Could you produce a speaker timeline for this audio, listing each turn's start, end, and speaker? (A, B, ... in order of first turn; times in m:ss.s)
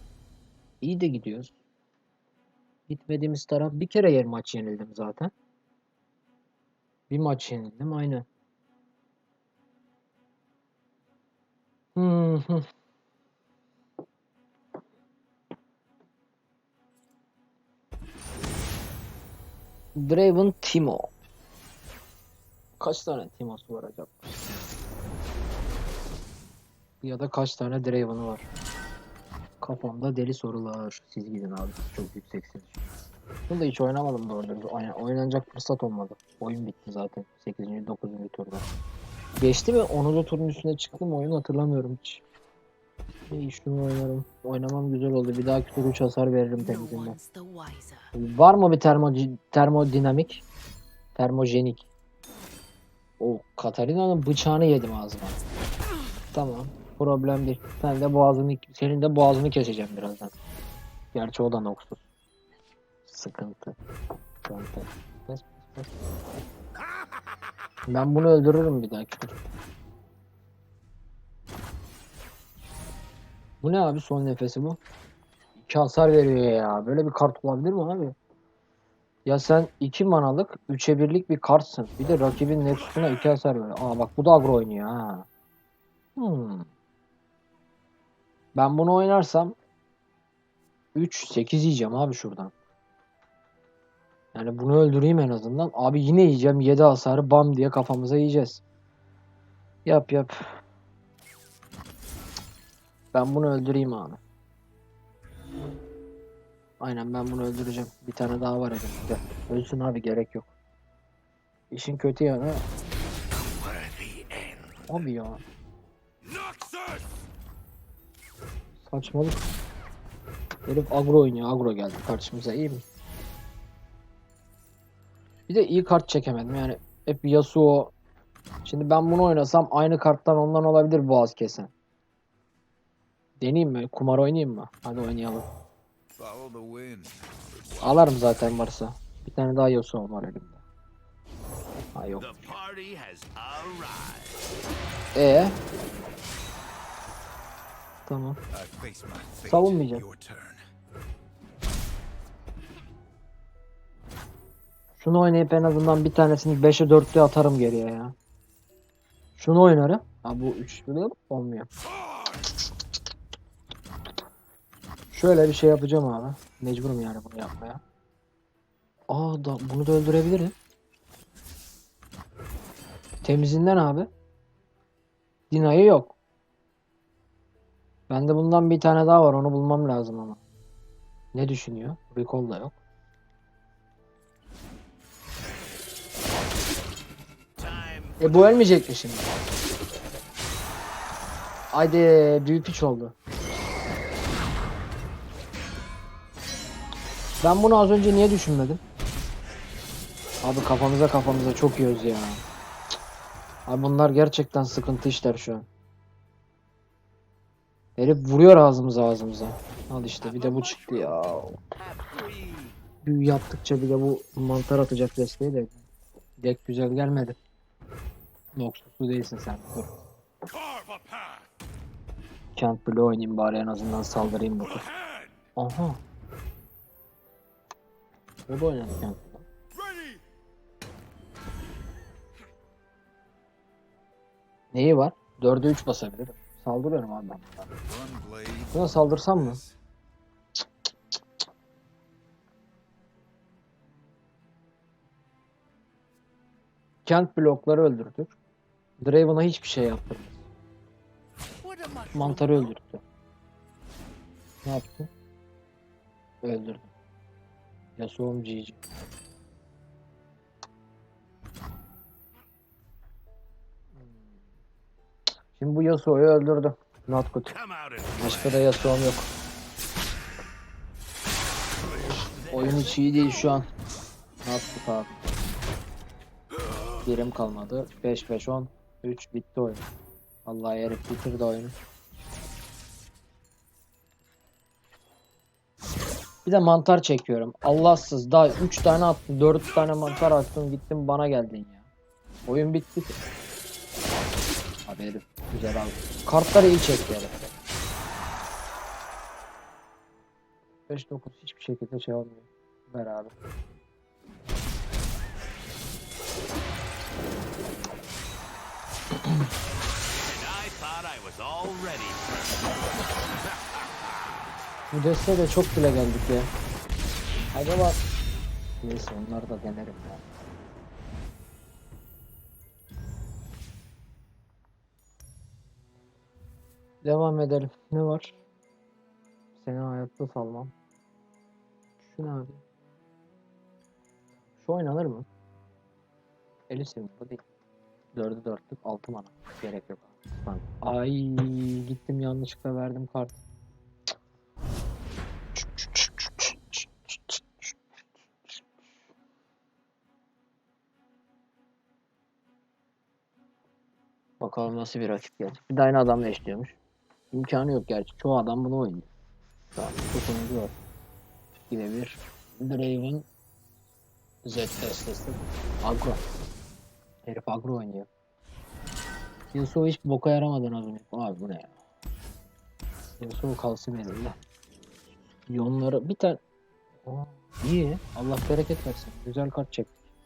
0:00.8-0:01.5 A
0:02.9-0:05.3 A
0:07.1-0:08.3 A
0:12.0-0:12.7 A
0:20.0-0:21.1 A
0:22.8-0:24.4 A
0:27.0-0:28.5 A
0:29.6-0:32.9 A
0:33.5-0:38.7 A
0:39.4-0:42.2 A
0:43.3-0:47.2 A
0:46.6-0:48.1 B
0:48.1-0:50.4 A
0:51.2-0:51.9 A
0:53.2-0:55.4 A
0:56.3-1:00.3 A
1:01.1-1:02.0 A
1:03.1-1:03.8 A
1:04.4-1:06.0 A
1:07.9-1:09.5 A
1:13.6-1:14.8 A
1:15.6-1:18.2 A
1:19.2-1:25.3 A
1:26.2-1:26.7 A
1:28.6-1:29.6 A
1:31.0-1:32.5 A
1:34.3-1:38.6 A
1:39.8-1:40.6 A
1:43.1-1:44.2 A
1:46.8-1:50.5 A
1:51.7-1:52.7 A
1:53.4-1:55.0 C
1:54.9-1:55.4 A
1:56.2-1:57.0 C
1:58.9-1:59.4 A
2:00.7-2:02.8 A
2:05.5-2:07.9 A
2:08.6-2:11.7 A
2:13.4-2:15.5 A
2:16.2-2:18.6 C
2:17.8-2:20.6 A
2:22.0-2:22.6 A
2:22.2-2:24.0 C
2:22.2-2:22.6 B
2:23.3-2:24.2 B
2:25.2-2:25.6 A
2:28.1-2:28.4 A
2:28.5-2:30.6 C
2:29.4-2:30.0 A
2:35.0-2:38.2 A
2:39.4-2:41.7 A
2:45.1-2:47.8 A
2:49.1-2:50.6 A
2:53.2-2:54.1 A
2:55.5-2:56.2 A
2:58.1-3:00.4 A
3:01.3-3:02.8 A
3:07.6-3:08.7 B
3:08.2-3:09.3 A
3:11.7-3:13.1 A
3:17.4-3:18.8 A
3:20.4-3:22.4 A
3:23.7-3:25.7 A
3:28.0-3:31.6 A
3:30.2-3:31.2 B
3:31.8-3:32.8 B
3:33.0-3:35.8 A
3:36.4-3:37.4 A
3:38.6-3:39.9 A
3:40.7-3:41.4 C
3:42.6-3:44.9 A
3:45.0-3:45.3 C
3:45.6-3:46.0 A
3:48.5-3:49.5 A
3:54.7-3:57.7 A
3:57.7-3:59.8 C
3:58.7-3:59.6 A
4:07.1-4:08.4 A
4:09.0-4:10.4 A
4:11.6-4:12.7 B
4:12.1-4:13.0 A
4:14.6-4:15.1 A
4:16.4-4:16.9 A
4:18.0-4:18.8 A
4:25.6-4:27.6 A
4:27.6-4:29.0 B
4:28.2-4:29.3 A
4:31.9-4:32.9 C
4:32.1-4:33.6 B
4:32.5-4:33.7 A
4:34.4-4:35.2 A
4:37.0-4:39.9 A
4:40.4-4:41.7 A
4:46.5-4:51.9 A
4:52.5-4:53.2 A
4:54.9-4:57.5 A
5:00.9-5:03.3 A
5:10.3-5:12.2 B
5:14.9-5:16.5 A
5:17.5-5:18.0 A
5:18.8-5:20.2 A
5:27.0-5:28.4 A
5:29.6-5:30.7 A
5:32.0-5:32.6 A
5:34.6-5:35.3 A
5:36.7-5:37.4 A
5:38.1-5:43.4 A
5:45.6-5:47.8 A
5:54.4-5:56.8 A
5:57.3-5:59.1 A
5:59.8-6:00.8 A
6:01.7-6:03.3 A
6:04.4-6:06.2 A
6:07.2-6:08.1 A
6:09.5-6:11.7 A
6:13.2-6:14.4 A
6:15.5-6:16.4 A
6:17.0-6:19.9 A